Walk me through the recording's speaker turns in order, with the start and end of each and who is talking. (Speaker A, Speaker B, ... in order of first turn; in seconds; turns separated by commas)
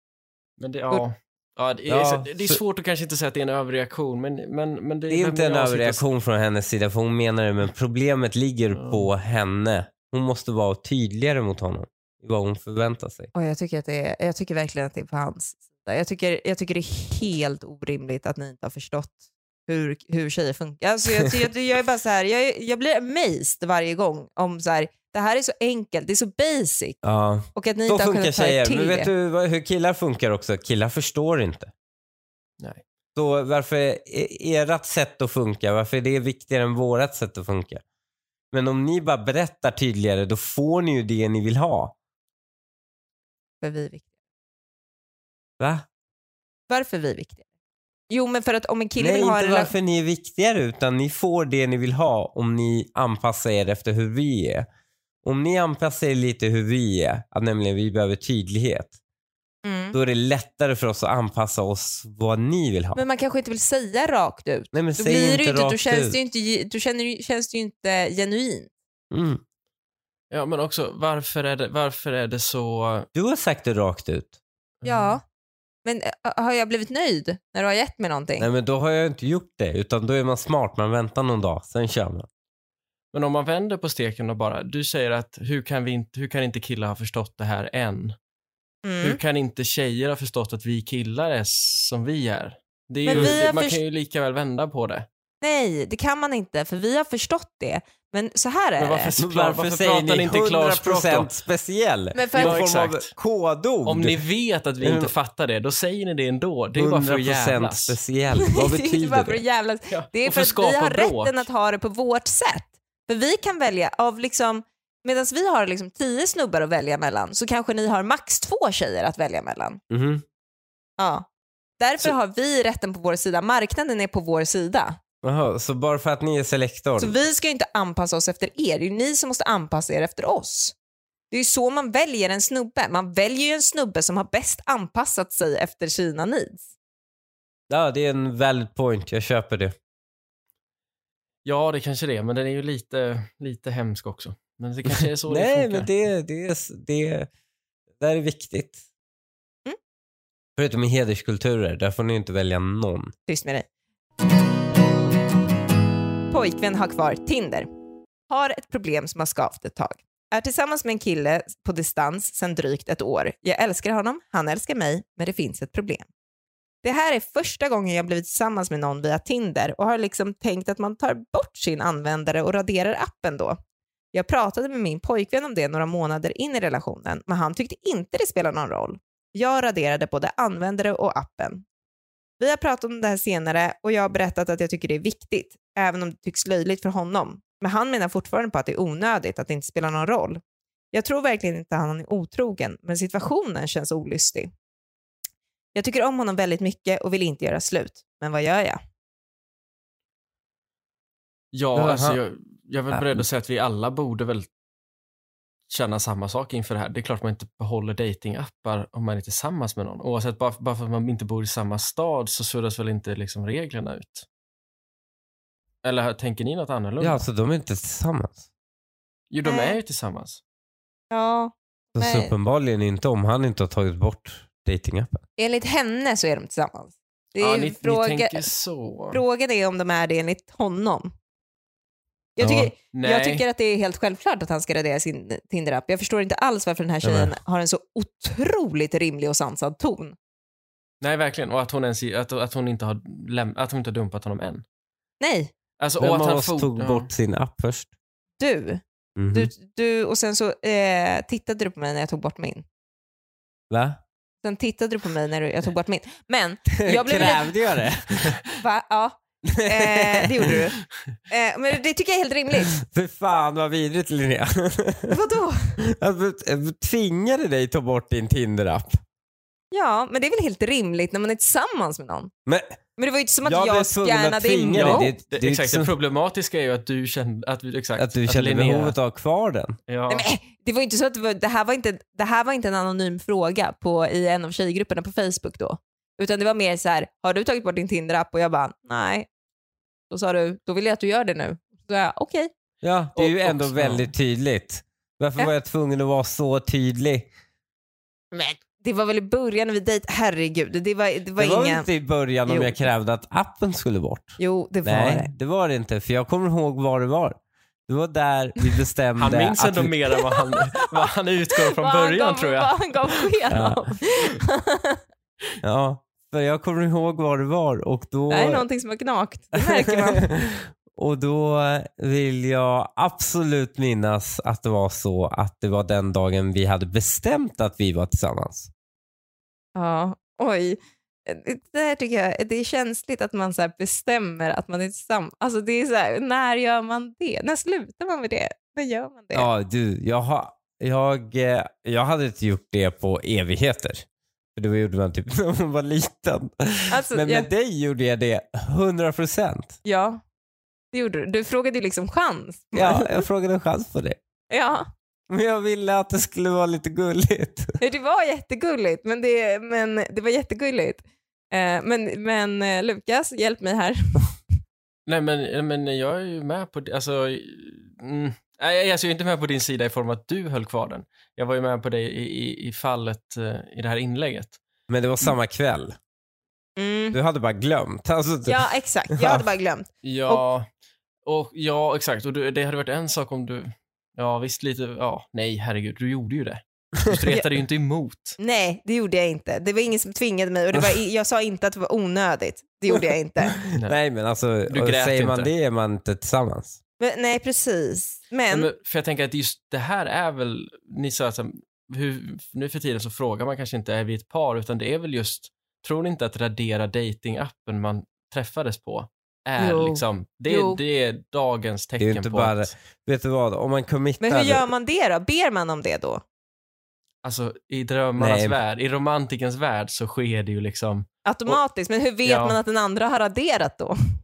Speaker A: 0.6-6.0, Speaker B: 1.9-2.6, Speaker B: 5.1-13.3, Speaker A: 8.7-9.1, Speaker C: 13.3-27.0, Speaker B: 27.0-31.7, Speaker C: 27.5-29.1, Speaker B: 33.1-37.8, Speaker B: 38.5-41.9, Speaker C: 43.6-44.1, Speaker B: 45.6-45.8, Speaker C: 46.7-47.4, Speaker C: 48.1-49.7, Speaker B: 49.0-54.6, Speaker B: 55.2-58.9, Speaker C: 59.6-60.0, Speaker B: 59.9-63.0, Speaker C: 62.9-68.7, Speaker B: 64.7-66.2, Speaker B: 69.1-69.4, Speaker A: 70.3-73.1, Speaker B: 73.1-74.3, Speaker A: 74.8-75.2, Speaker C: 74.8-75.2, Speaker C: 75.8-78.5, Speaker B: 78.4-82.3, Speaker A: 83.1-88.2, Speaker C: 88.8-89.2, Speaker A: 89.0-95.1, Speaker C: 93.0-93.8, Speaker B: 93.1-93.4, Speaker C: 95.4-99.1, Speaker A: 98.8-101.3, Speaker B: 99.2-104.2, Speaker C: 102.1-102.6, Speaker A: 102.3-103.1, Speaker A: 103.8-108.0, Speaker B: 104.8-105.1, Speaker B: 106.7-109.4, Speaker C: 108.5-119.8, Speaker A: 109.9-111.5, Speaker B: 119.9-120.2, Speaker C: 121.0-121.3, Speaker C: 121.8-125.0, Speaker B: 125.2-127.2, Speaker C: 127.0-130.8, Speaker C: 131.3-136.6, Speaker B: 137.7-139.7, Speaker A: 141.4-145.9, Speaker B: 144.8-147.3, Speaker B: 148.0-148.8, Speaker B: 150.6-153.1, Speaker C: 153.3-153.7, Speaker C: 156.3-157.7, Speaker C: 158.3-166.1, Speaker C: 166.8-173.6, Speaker C: 174.1-181.6, Speaker C: 182.4-190.4, Speaker C: 190.9-194.5, Speaker C: 195.7-198.8, Speaker A: 201.5-204.5, Speaker B: 201.7-202.2, Speaker B: 202.9-203.2, Speaker A: 205.7-214.2, Speaker A: 215.8-217.2, Speaker B: 217.0-218.4, Speaker A: 219.3-220.4, Speaker C: 219.4-219.8, Speaker C: 221.1-222.3, Speaker B: 221.9-225.2, Speaker C: 225.4-228.5, Speaker A: 227.4-229.2, Speaker C: 229.1-231.1, Speaker C: 232.4-240.2, Speaker A: 232.4-233.4, Speaker B: 237.0-237.3, Speaker A: 241.0-244.6, Speaker C: 245.2-245.5, Speaker A: 245.8-247.1, Speaker B: 246.0-247.9, Speaker C: 248.4-248.8, Speaker B: 249.2-249.5, Speaker C: 249.3-252.6, Speaker B: 253.7-254.0, Speaker C: 254.4-257.9, Speaker B: 256.7-258.4, Speaker C: 258.6-262.7, Speaker B: 259.4-260.5, Speaker B: 262.7-265.1, Speaker C: 265.1-265.8, Speaker B: 265.9-269.0, Speaker C: 269.7-272.3, Speaker B: 272.4-272.8, Speaker C: 273.0-275.1, Speaker B: 273.4-275.9, Speaker A: 274.7-278.9, Speaker B: 278.0-279.8, Speaker A: 279.9-280.3, Speaker C: 280.1-289.3, Speaker C: 290.1-292.5, Speaker B: 292.8-297.3, Speaker A: 293.2-294.1, Speaker C: 298.3-301.9, Speaker B: 301.4-310.0, Speaker C: 302.5-302.7, Speaker C: 304.4-305.3, Speaker A: 309.2-313.3, Speaker C: 311.7-315.0, Speaker B: 313.5-313.8, Speaker B: 315.6-318.6, Speaker C: 318.3-320.4, Speaker B: 319.5-328.7, Speaker C: 329.8-339.5, Speaker B: 339.3-349.8, Speaker C: 346.9-347.5, Speaker C: 349.8-350.2, Speaker C: 350.9-353.2, Speaker B: 352.7-354.2, Speaker C: 354.5-354.9, Speaker B: 355.3-357.8, Speaker C: 357.8-364.4, Speaker A: 365.1-374.6, Speaker B: 374.9-376.0, Speaker C: 376.8-377.1, Speaker B: 377.1-379.4, Speaker C: 378.4-380.4, Speaker A: 380.0-380.7, Speaker A: 381.2-388.4, Speaker C: 388.4-393.6, Speaker B: 393.6-396.8, Speaker A: 394.7-395.5, Speaker C: 397.0-398.7, Speaker A: 398.5-412.7, Speaker C: 409.6-410.8, Speaker B: 412.0-414.6, Speaker C: 414.2-416.2, Speaker A: 417.2-421.6, Speaker B: 418.2-418.6, Speaker C: 421.2-423.9, Speaker A: 422.2-422.6